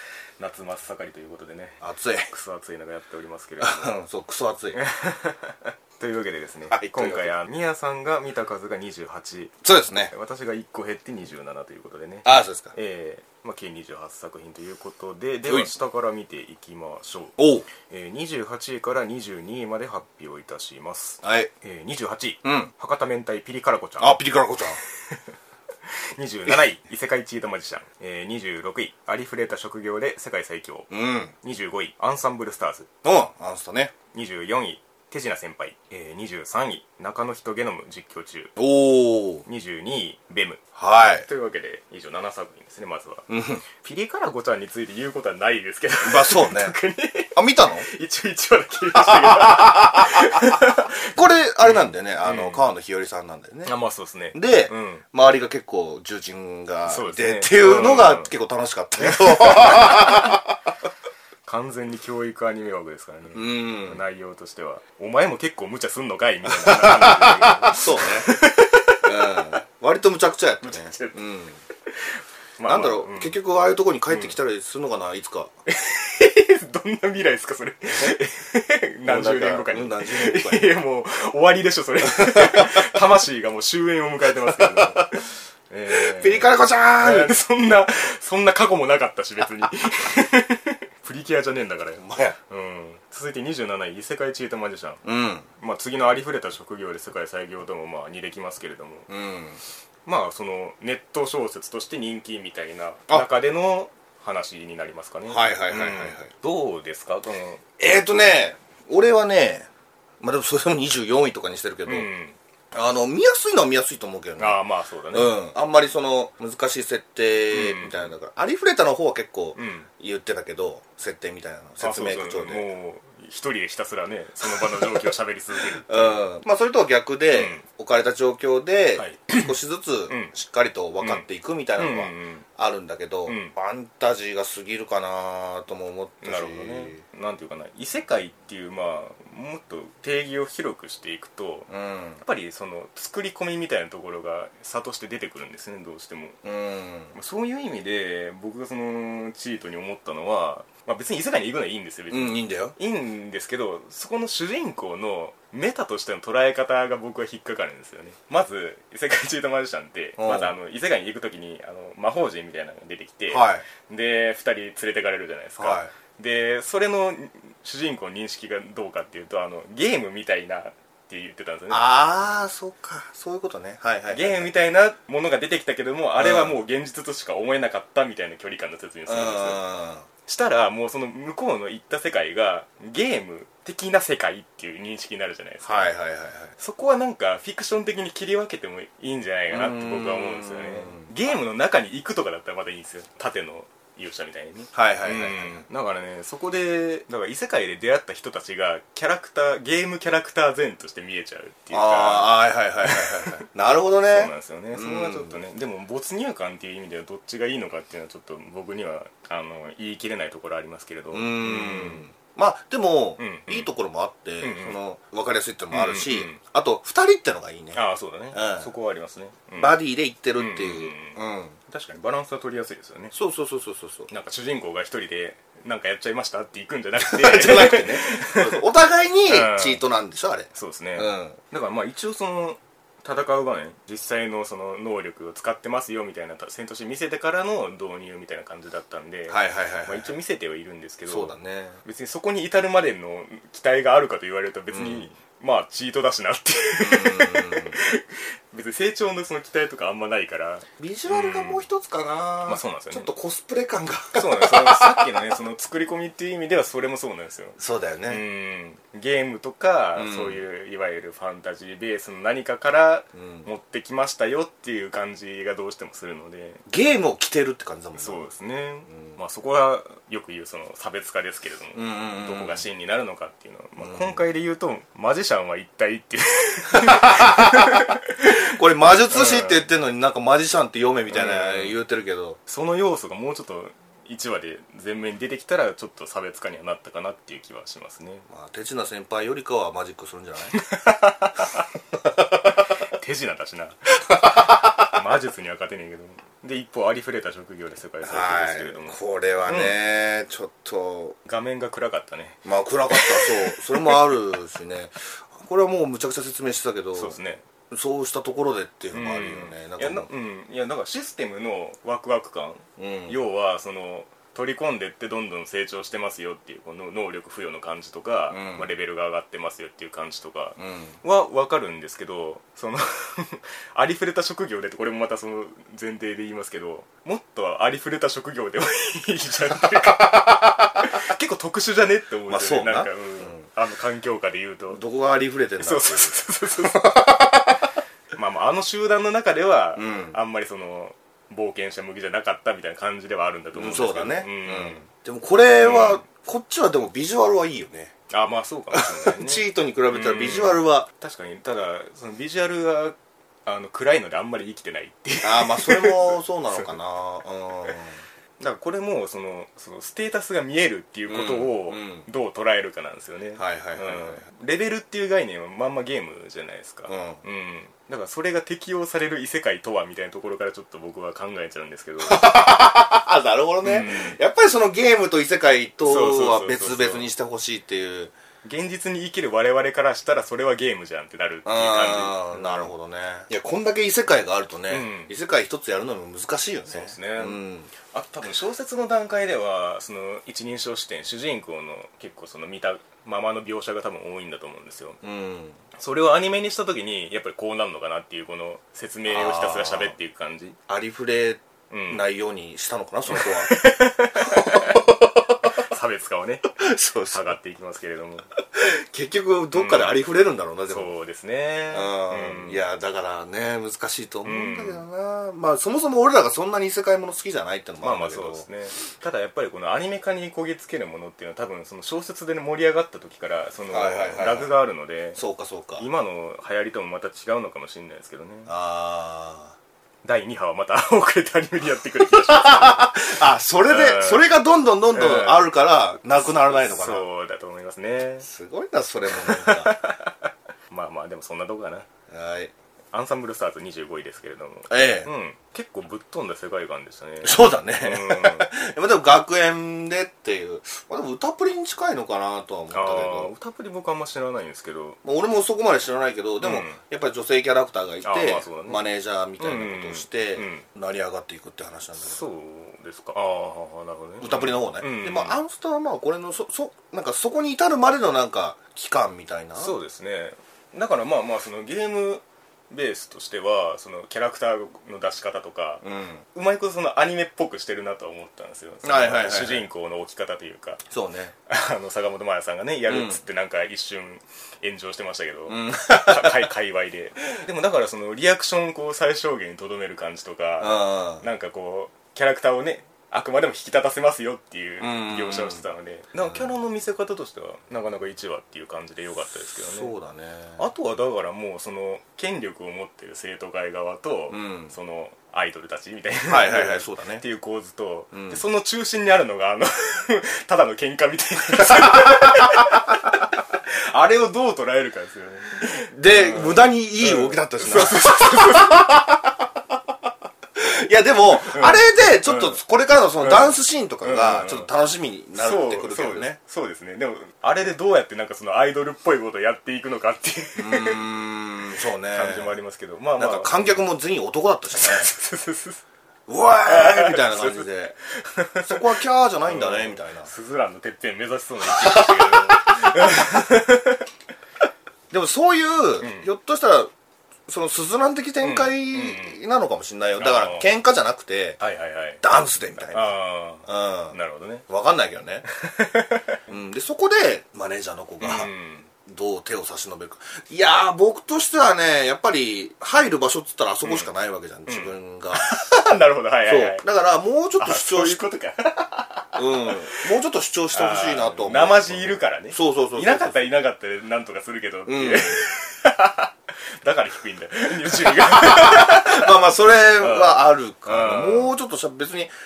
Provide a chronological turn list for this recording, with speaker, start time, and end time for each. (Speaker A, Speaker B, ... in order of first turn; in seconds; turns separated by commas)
Speaker A: 0.4-1.8, Speaker B: 1.8-2.3, Speaker A: 2.3-3.9, Speaker B: 3.6-4.8, Speaker A: 4.8-9.6, Speaker B: 6.7-7.3, Speaker B: 9.6-10.1, Speaker A: 10.1-24.2, Speaker B: 12.2-12.7, Speaker B: 17.4-17.7, Speaker B: 21.2-21.5, Speaker B: 22.4-22.7, Speaker B: 24.0-24.8, Speaker A: 24.8-25.2, Speaker A: 26.2-30.9, Speaker B: 30.9-31.3, Speaker A: 31.4-32.9, Speaker B: 33.0-33.9, Speaker A: 34.1-38.5, Speaker B: 38.6-39.4, Speaker A: 39.5-40.6, Speaker B: 40.8-41.3, Speaker A: 41.2-52.6, Speaker B: 43.3-43.6, Speaker B: 46.0-46.8, Speaker B: 47.3-47.9, Speaker B: 48.9-53.7, Speaker A: 53.6-55.0, Speaker B: 54.3-60.5, Speaker A: 56.9-58.3, Speaker A: 59.0-60.3, Speaker A: 61.5-69.6, Speaker B: 63.3-64.0, Speaker B: 66.5-68.3, Speaker B: 69.0-71.6, Speaker A: 70.6-71.2, Speaker A: 72.0-73.4, Speaker B: 72.7-75.5, Speaker A: 74.1-74.3, Speaker A: 75.7-95.0, Speaker B: 79.0-80.7, Speaker B: 82.0-82.9, Speaker B: 84.5-85.2, Speaker B: 85.9-87.3, Speaker B: 92.0-92.4, Speaker B: 95.0-95.5, Speaker A: 95.6-99.1, Speaker B: 99.1-99.6, Speaker A: 100.1-107.6, Speaker B: 105.3-106.3, Speaker B: 107.8-109.7, Speaker B: 110.2-112.1, Speaker A: 111.9-112.4, Speaker B: 112.7-114.6, Speaker A: 114.4-115.4, Speaker B: 115.1-122.6, Speaker A: 117.5-118.1, Speaker A: 119.5-119.9, Speaker A: 121.8-126.2, Speaker B: 124.5-125.1, Speaker B: 125.8-137.0, Speaker A: 127.3-127.6, Speaker A: 129.0-129.5, Speaker A: 131.8-132.5, Speaker A: 133.3-133.5, Speaker A: 136.2-141.7, Speaker B: 141.7-142.2, Speaker A: 142.2-146.4, Speaker B: 146.4-147.1, Speaker A: 147.1-171.9, Speaker B: 152.1-152.8, Speaker B: 160.2-160.5, Speaker B: 163.3-163.7, Speaker B: 165.6-165.9, Speaker B: 171.7-174.5, Speaker A: 174.1-179.6, Speaker B: 176.2-176.5, Speaker B: 179.1-180.1, Speaker A: 180.3-186.0, Speaker B: 185.6-186.5, Speaker A: 186.6-203.4, Speaker B: 189.5-191.1, Speaker B: 194.7-195.7, Speaker B: 201.7-205.4, Speaker A: 204.1-212.1, Speaker B: 211.1-217.8, Speaker A: 213.2-213.7, Speaker A: 214.4-214.8, Speaker A: 215.7-216.4, Speaker A: 217.7-219.8, Speaker B: 218.3-218.7, Speaker B: 219.6-221.6, Speaker A: 220.4-223.1, Speaker B: 223.1-224.1, Speaker A: 224.1-228.6, Speaker B: 227.0-231.4, Speaker A: 229.3-229.8, Speaker A: 230.5-251.7, Speaker B: 239.3-240.1, Speaker B: 241.1-241.8, Speaker B: 244.7-245.1, Speaker B: 246.8-247.8, Speaker B: 250.8-255.3, Speaker A: 252.4-253.1, Speaker A: 254.1-266.6, Speaker B: 257.6-258.2, Speaker B: 260.0-260.4, Speaker B: 263.2-263.5, Speaker B: 266.7-268.2, Speaker A: 268.0-278.3, Speaker B: 271.7-272.6, Speaker B: 273.8-274.2, Speaker B: 276.8-282.4, Speaker A: 279.1-279.7, Speaker A: 281.1-281.8, Speaker A: 282.5-288.3, Speaker B: 288.3-290.6, Speaker A: 290.6-291.6, Speaker A: 292.9-293.8, Speaker B: 294.1-294.7, Speaker A: 294.9-299.0, Speaker B: 298.0-301.2, Speaker A: 299.5-299.8, Speaker A: 301.3-304.1, Speaker B: 302.4-307.2, Speaker A: 306.9-307.4, Speaker B: 307.7-310.1, Speaker A: 308.9-334.8, Speaker B: 312.8-313.2, Speaker B: 318.3-318.7, Speaker B: 320.6-321.0, Speaker B: 329.7-330.9, Speaker B: 332.3-333.4, Speaker B: 334.7-337.6, Speaker A: 335.6-336.9, Speaker A: 338.1-344.8, Speaker B: 339.8-340.2, Speaker B: 343.5-347.9, Speaker A: 345.6-346.0, Speaker A: 348.1-356.8, Speaker B: 348.7-350.9, Speaker B: 355.2-358.0, Speaker A: 358.4-372.4, Speaker B: 361.1-362.1, Speaker B: 363.4-364.2, Speaker B: 366.9-367.2, Speaker B: 372.0-378.1, Speaker A: 373.6-374.2, Speaker A: 375.8-377.1, Speaker A: 378.4-382.7, Speaker B: 381.4-387.7, Speaker A: 384.7-385.1, Speaker A: 386.7-395.0, Speaker B: 395.0-395.6, Speaker A: 395.8-400.6, Speaker B: 399.1-400.0, Speaker B: 400.7-403.6, Speaker A: 401.7-402.0, Speaker A: 403.1-404.9, Speaker B: 404.1-405.3, Speaker A: 405.5-408.3, Speaker B: 406.6-407.3, Speaker B: 408.5-410.9, Speaker A: 409.5-410.0, Speaker A: 410.7-412.6, Speaker B: 411.7-418.4, Speaker A: 414.2-414.9, Speaker A: 417.8-425.2, Speaker B: 423.7-424.5, Speaker B: 425.2-425.9, Speaker A: 425.8-428.5, Speaker B: 428.5-429.5, Speaker A: 430.0-433.1, Speaker B: 432.0-437.1, Speaker A: 433.6-434.3, Speaker A: 434.9-435.5, Speaker A: 436.4-438.3, Speaker B: 438.2-439.8, Speaker A: 439.1-440.2, Speaker A: 440.7-441.9, Speaker B: 442.1-442.5, Speaker A: 442.9-448.5, Speaker B: 444.7-445.1, Speaker B: 447.2-453.3, Speaker A: 452.7-455.0, Speaker B: 455.0-462.2, Speaker A: 456.4-456.8, Speaker A: 458.0-458.8, Speaker A: 459.4-460.7, Speaker A: 462.0-465.4, Speaker B: 464.2-469.7, Speaker A: 469.6-475.8, Speaker B: 475.8-476.2, Speaker A: 476.3-480.8, Speaker B: 478.8-479.7, Speaker B: 480.9-481.3, Speaker A: 481.5-499.9, Speaker B: 482.9-483.2, Speaker B: 485.5-486.5, Speaker B: 490.6-491.2, Speaker B: 494.8-495.6, Speaker B: 499.5-500.6, Speaker A: 500.6-518.9, Speaker B: 504.3-504.7, Speaker B: 506.3-507.2, Speaker B: 508.1-508.4, Speaker B: 511.6-512.5, Speaker B: 515.9-519.5, Speaker B: 520.6-526.4, Speaker A: 521.4-522.6, Speaker A: 523.2-524.7, Speaker A: 525.4-531.1, Speaker B: 530.6-532.6, Speaker A: 532.1-533.8, Speaker B: 533.2-535.1, Speaker A: 534.7-535.8, Speaker B: 536.3-538.0, Speaker A: 536.7-544.0, Speaker B: 538.6-540.3, Speaker B: 541.6-543.5, Speaker B: 545.1-546.9, Speaker A: 546.0-546.3, Speaker B: 547.5-551.6, Speaker A: 548.4-549.4, Speaker A: 550.2-550.7, Speaker A: 551.6-552.2, Speaker B: 552.2-553.1, Speaker A: 552.8-554.6, Speaker B: 553.6-554.2, Speaker B: 554.7-555.5, Speaker A: 555.5-556.4, Speaker B: 556.5-558.5, Speaker A: 558.2-558.9, Speaker B: 559.1-565.5, Speaker A: 564.7-566.9, Speaker B: 566.5-568.2, Speaker A: 567.6-570.1, Speaker B: 569.4-573.4, Speaker A: 570.7-581.5, Speaker B: 574.9-575.4, Speaker B: 578.0-582.3